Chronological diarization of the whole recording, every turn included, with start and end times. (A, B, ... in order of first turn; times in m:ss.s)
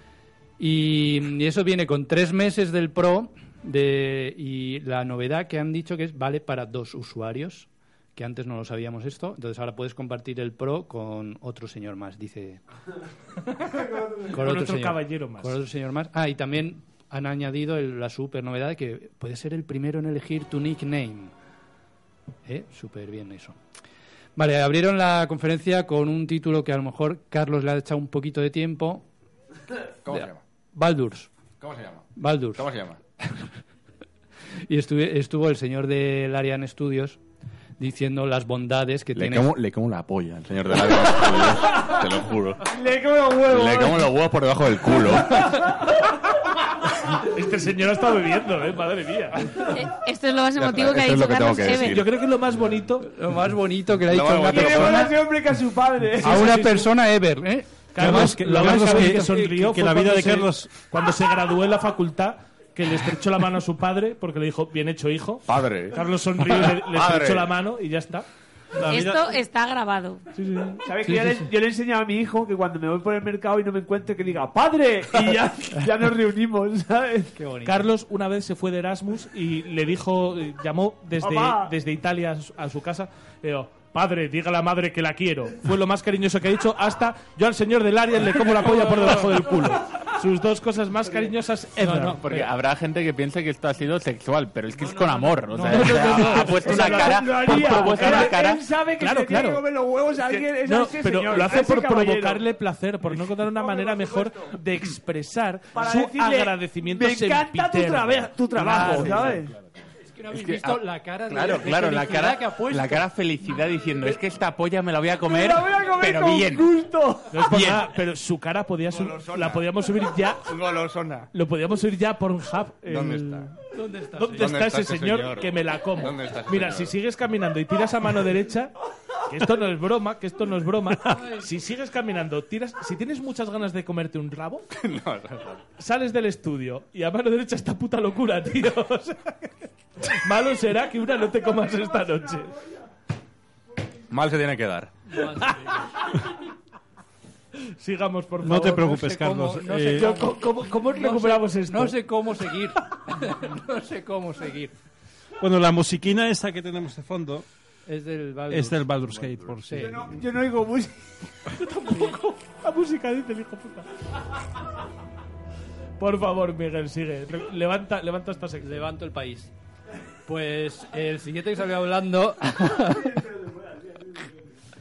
0:00.6-0:12.6 A
0:13.9-0:14.2 B
0:14.2-0:15.6 C
0:14.3-0:21.3 A
0:22.4-0:23.6 A
0:24.4-0:29.0 A
0:30.0-0:30.4 D
0:30.1-0:31.3 A
0:31.6-0:33.0 D
0:32.2-0:32.7 A
0:34.7-0:37.2 A
0:37.8-0:39.5 A
0:39.1-0:42.7 D
0:42.7-0:44.1 B
0:43.5-0:45.7 D
0:47.1-0:49.7 C
0:49.7-0:52.0 E
0:50.6-0:52.1 D
0:51.8-0:53.1 C
0:53.0-0:55.2 A
0:54.0-0:55.1 D
0:54.5-0:56.8 B
0:56.2-0:59.3 A
0:56.2-0:56.9 C
0:57.9-1:08.3 C
0:58.0-1:00.7 F
1:05.5-1:07.5 D
1:08.8-1:09.4 F
1:08.8-1:10.2 E
1:10.3-1:10.9 C
1:10.8-1:17.3 B
1:11.1-1:11.4 A
1:17.4-1:17.9 A
1:17.6-1:32.3 C
1:21.2-1:21.7 B
1:31.8-1:32.5 A
1:31.9-1:38.6 G
1:34.8-1:36.5 A
1:35.5-1:38.4 C
1:36.6-1:42.4 B
1:39.0-1:39.6 C
1:40.3-1:49.4 C
1:43.2-1:44.5 B
1:45.7-1:49.6 B
1:48.8-1:49.2 A
1:50.1-1:53.1 A
1:50.3-1:56.7 G
1:55.2-1:57.8 B
1:57.3-2:00.6 C
1:59.0-1:59.6 D
2:00.4-2:01.3 D
2:01.3-2:03.6 C
2:02.9-2:03.5 D
2:03.7-2:04.6 A
2:04.2-2:08.8 C
2:04.4-2:07.0 D
2:09.3-2:14.7 C
2:14.7-2:15.6 D
2:15.8-2:22.6 C
2:24.1-2:25.0 D
2:25.1-2:25.9 A
2:27.8-2:29.0 C
2:28.4-2:30.2 F
2:28.6-2:34.7 A
2:30.0-2:32.0 C
2:35.4-2:37.5 F
2:37.9-2:40.1 A
2:38.5-2:40.0 F
2:39.7-2:41.3 B
2:41.6-2:43.9 C
2:46.0-2:48.9 C
2:48.6-2:49.5 A
2:50.3-2:53.2 A
2:53.0-2:54.2 B